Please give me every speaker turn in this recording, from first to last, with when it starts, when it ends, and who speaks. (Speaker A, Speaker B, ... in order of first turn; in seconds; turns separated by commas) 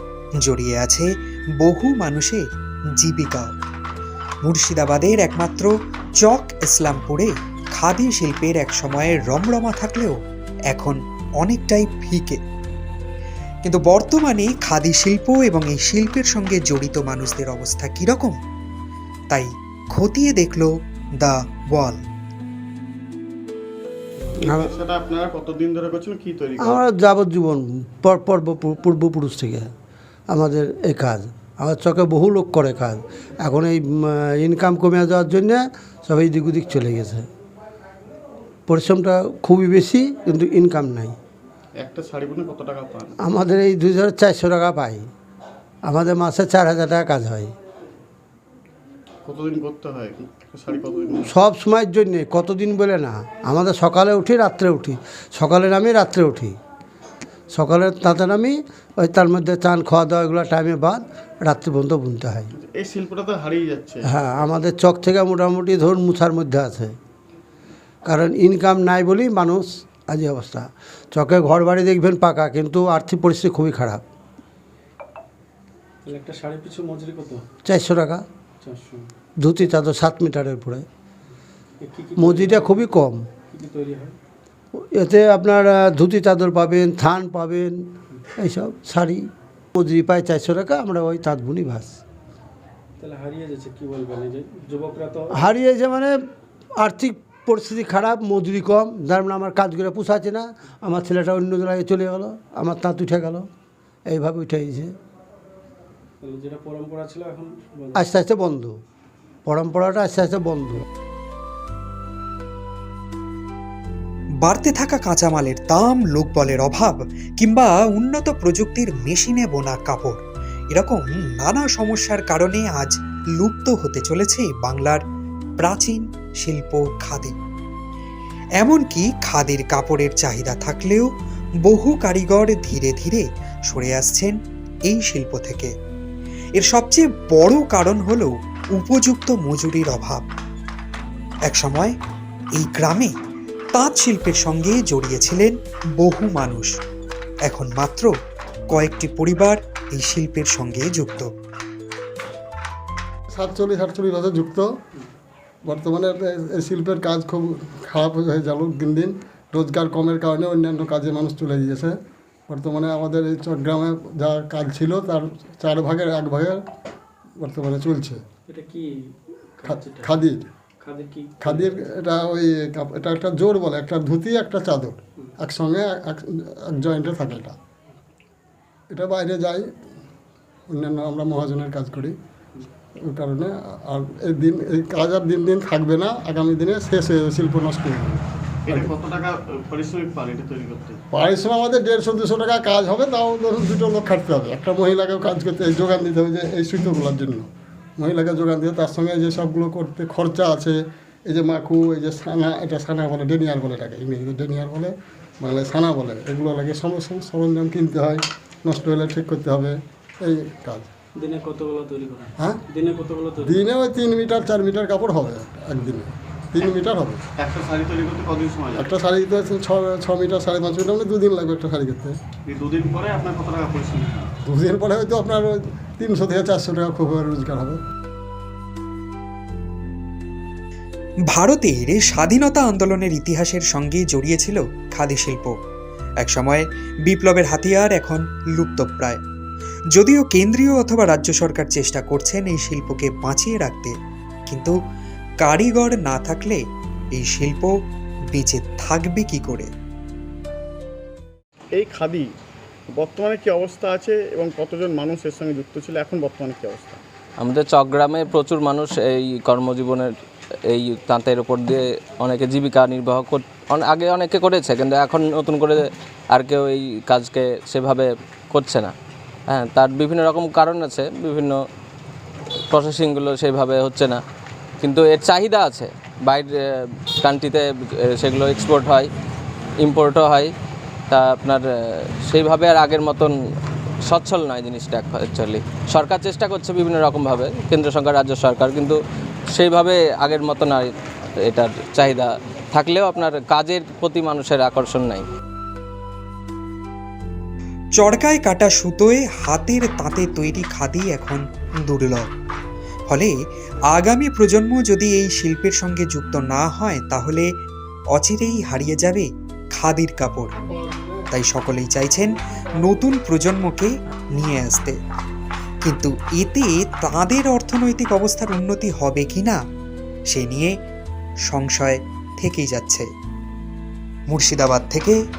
Speaker A: 0.4-2.4, Speaker A: 2.9-3.5, Speaker A: 4.4-10.2, Speaker A: 10.7-12.4, Speaker A: 13.6-18.4, Speaker A: 19.3-22.0, Speaker B: 24.2-26.8, Speaker C: 24.4-24.7, Speaker C: 26.6-29.7, Speaker C: 30.3-37.3, Speaker C: 38.7-41.2, Speaker B: 41.8-43.1, Speaker C: 43.2-45.1, Speaker C: 45.9-47.5, Speaker B: 49.2-51.3, Speaker C: 51.2-56.6, Speaker C: 57.5-62.5, Speaker B: 62.5-64.1, Speaker C: 64.1-67.0, Speaker C: 68.0-74.0, Speaker D: 76.0-77.5, Speaker C: 77.6-78.2, Speaker D: 78.6-79.1, Speaker C: 79.4-80.8, Speaker D: 81.8-82.6, Speaker C: 82.2-83.3, Speaker D: 83.5-84.2, Speaker C: 84.7-92.0, Speaker D: 93.0-95.3, Speaker C: 95.3-96.2, Speaker C: 96.8-103.5, Speaker C: 104.1-104.9, Speaker D: 106.2-108.0, Speaker C: 107.9-108.8, Speaker C: 109.5-110.8, Speaker A: 114.4-120.2, Speaker A: 120.7-125.0, Speaker A: 125.6-127.3, Speaker A: 128.6-131.1, Speaker A: 131.7-134.4, Speaker A: 134.9-135.7, Speaker A: 136.6-140.2, Speaker A: 141.4-141.9, Speaker A: 142.6-143.1, Speaker A: 143.7-146.7, Speaker A: 147.4-148.1, Speaker A: 148.7-151.3, Speaker E: 153.3-154.7, Speaker E: 155.6-162.0, Speaker E: 162.5-166.6, Speaker E: 167.4-168.2, Speaker D: 168.5-170.1, Speaker E: 169.6-170.5, Speaker D: 170.8-171.7, Speaker E: 171.4-177.6, Speaker E: 178.9-179.7, Speaker E: 180.7-182.2, Speaker E: 183.0-188.9, Speaker B: 188.6-191.0, Speaker E: 191.1-210.9, Speaker D: 211.2-213.6, Speaker E: 213.4-217.2, Speaker B: 217.4-218.9, Speaker E: 218.8-222.2, Speaker B: 222.4-224.3, Speaker E: 224.4-227.8, Speaker A: 231.3-235.5, Speaker A: 236.2-239.2, Speaker A: 239.9-243.9, Speaker A: 244.5-244.7, Speaker A: 245.4-246.6, Speaker A: 247.1-247.7, Speaker A: 248.3-249.7, Speaker B: 251.8-252.2, Speaker B: 252.9-257.0, Speaker F: 257.4-260.1, Speaker F: 260.7-268.9, Speaker F: 269.5-271.6, Speaker F: 272.7-274.2, Speaker F: 274.8-279.1, Speaker F: 279.8-280.5, Speaker F: 281.1-281.7, Speaker F: 282.2-283.3, Speaker F: 284.1-289.0, Speaker F: 289.5-290.9, Speaker F: 291.4-295.2, Speaker A: 298.0-302.3, Speaker A: 303.1-303.3, Speaker A: 303.9-307.5, Speaker A: 308.1-310.5, Speaker E: 310.6-311.3, Speaker A: 311.3-312.3, Speaker E: 312.2-313.0, Speaker A: 312.8-315.0, Speaker A: 315.8-319.6, Speaker A: 320.3-320.7, Speaker A: 321.4-323.1, Speaker A: 324.3-325.2